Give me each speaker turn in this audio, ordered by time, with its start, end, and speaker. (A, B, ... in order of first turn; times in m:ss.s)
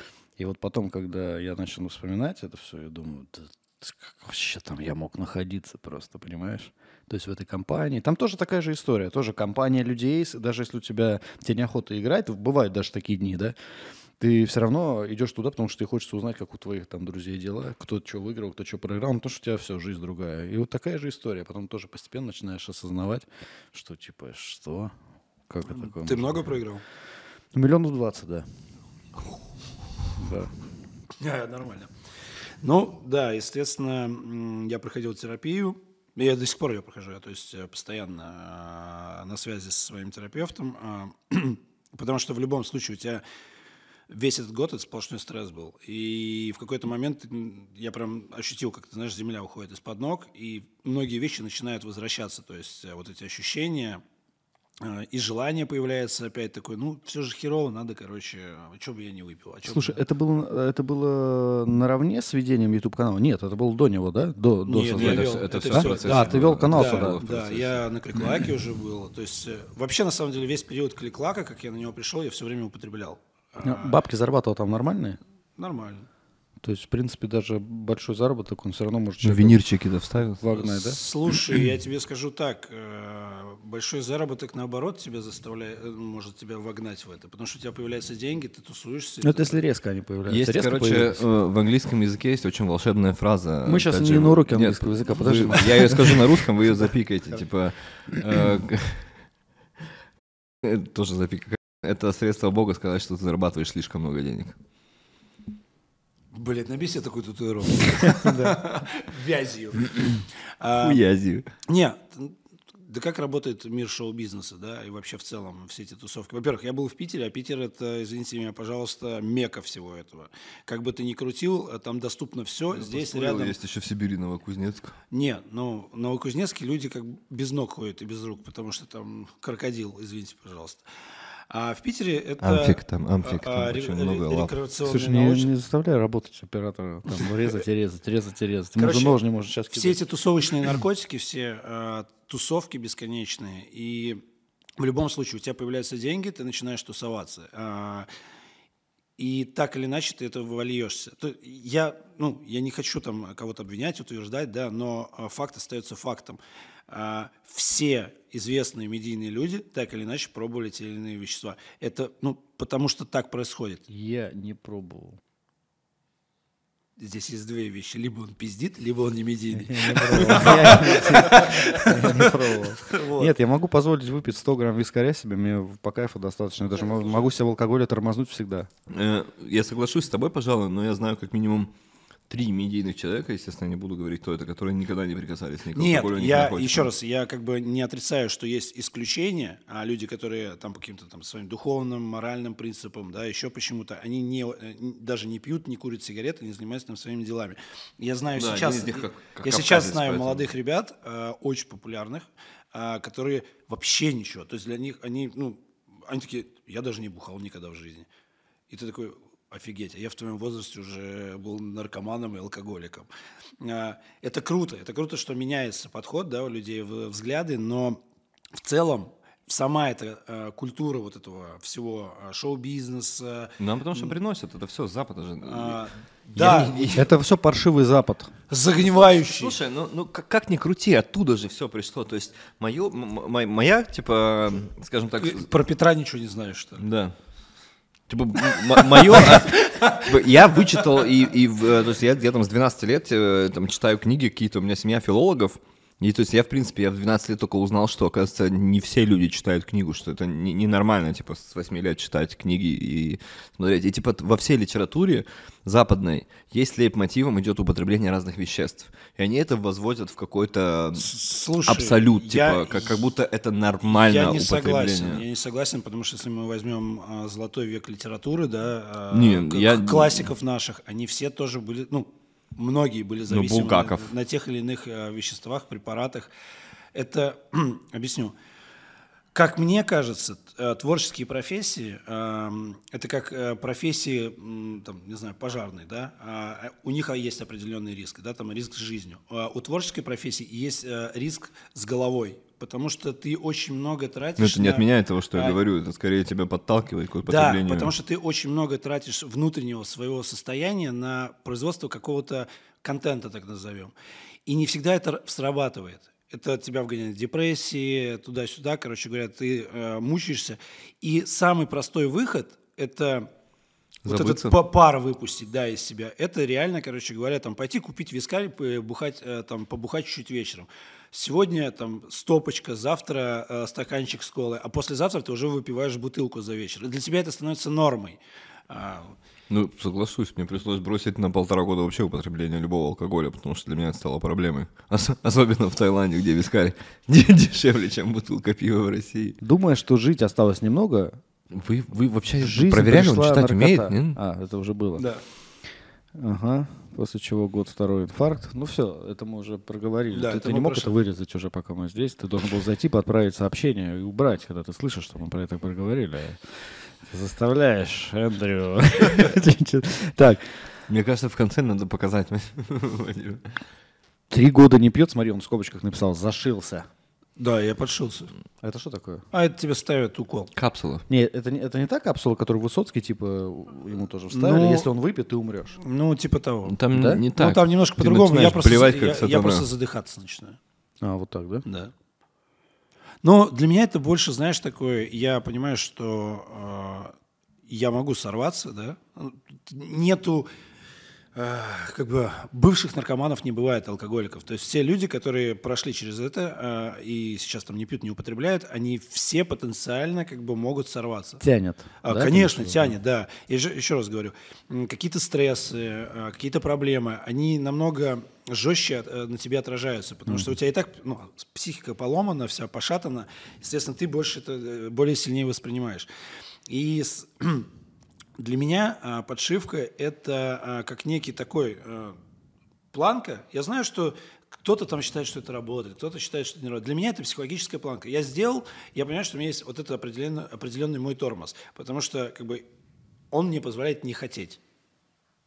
0:00.4-0:13.6 A
0:14.2-0:24.9 A
0:25.5-0:26.5 A
0:25.7-0:26.8 B
0:27.5-0:28.5 A
0:30.2-0:30.5 A
0:31.2-0:31.9 B
0:32.6-0:43.2 B
0:44.1-0:54.0 B
0:54.8-1:00.0 B
0:59.6-1:07.2 A
1:04.7-1:14.0 B
1:04.9-1:07.8 C
1:13.6-1:15.2 A
1:15.6-1:16.1 B
1:16.6-1:19.6 A
1:19.2-1:20.4 C
1:20.4-1:21.0 A
1:20.6-1:29.6 B
1:29.2-1:31.2 A
1:30.3-1:39.2 C
1:33.6-1:36.5 A
1:40.6-1:44.6 C
1:46.3-1:51.0 B
1:48.1-1:48.6 A
1:50.8-1:51.5 C
1:51.7-2:03.6 B
2:02.7-2:05.0 C
2:05.1-2:10.8 B
2:11.5-2:15.5 B
2:12.4-2:14.5 C
2:14.8-2:20.0 A
2:18.8-2:19.2 B
2:19.7-2:24.2 B
2:24.8-2:28.1 B
2:29.2-2:43.9 B
2:43.9-2:45.2 A
2:47.0-2:53.3 B
2:49.5-2:58.7 A
2:58.9-3:01.7 C
3:02.3-3:06.9 C
3:05.7-3:28.1 B
3:18.4-3:20.5 C
3:28.7-3:33.1 B
3:33.6-3:38.0 B
3:38.6-3:44.1 B
3:43.6-3:45.8 C
3:45.4-3:47.0 B
3:46.3-3:47.1 C
3:46.9-3:48.3 A
3:48.5-3:49.6 B
3:49.2-3:55.5 C
3:55.2-3:56.8 B
3:56.8-3:57.2 C
3:58.1-4:21.1 C
3:58.7-4:00.5 B
4:21.0-4:23.0 B
4:21.7-4:25.2 C
4:23.8-4:36.3 B
4:29.1-4:30.3 C
4:33.3-4:34.1 C
4:36.9-4:38.3 B
4:39.3-4:55.6 B
4:54.4-4:57.9 C
4:57.3-5:03.9 B
5:04.5-5:13.3 B
5:14.0-5:14.6 C
5:14.1-5:29.2 B
5:29.5-5:39.4 C
5:39.4-5:41.2 A
5:41.5-5:44.2 C
5:42.4-5:45.1 A
5:46.2-6:00.6 A
5:50.1-5:50.9 B
6:00.9-6:03.6 C
6:04.3-6:06.9 A
6:07.4-6:08.3 B
6:08.6-6:09.2 A
6:09.3-6:10.5 B
6:10.6-6:11.0 C
6:11.1-6:15.8 A
6:14.3-6:14.9 B
6:15.8-6:20.6 B
6:16.7-6:19.7 C
6:16.9-6:17.2 A
6:21.0-6:21.7 A
6:21.7-6:21.9 B
6:23.2-6:27.1 B
6:27.7-6:30.5 B
6:31.4-6:41.4 B
6:41.4-6:42.9 A
6:42.0-6:56.1 B
6:50.3-6:50.5 A
6:56.7-6:57.7 B
6:58.4-7:02.2 B
7:02.9-7:12.6 B
7:13.3-7:14.6 B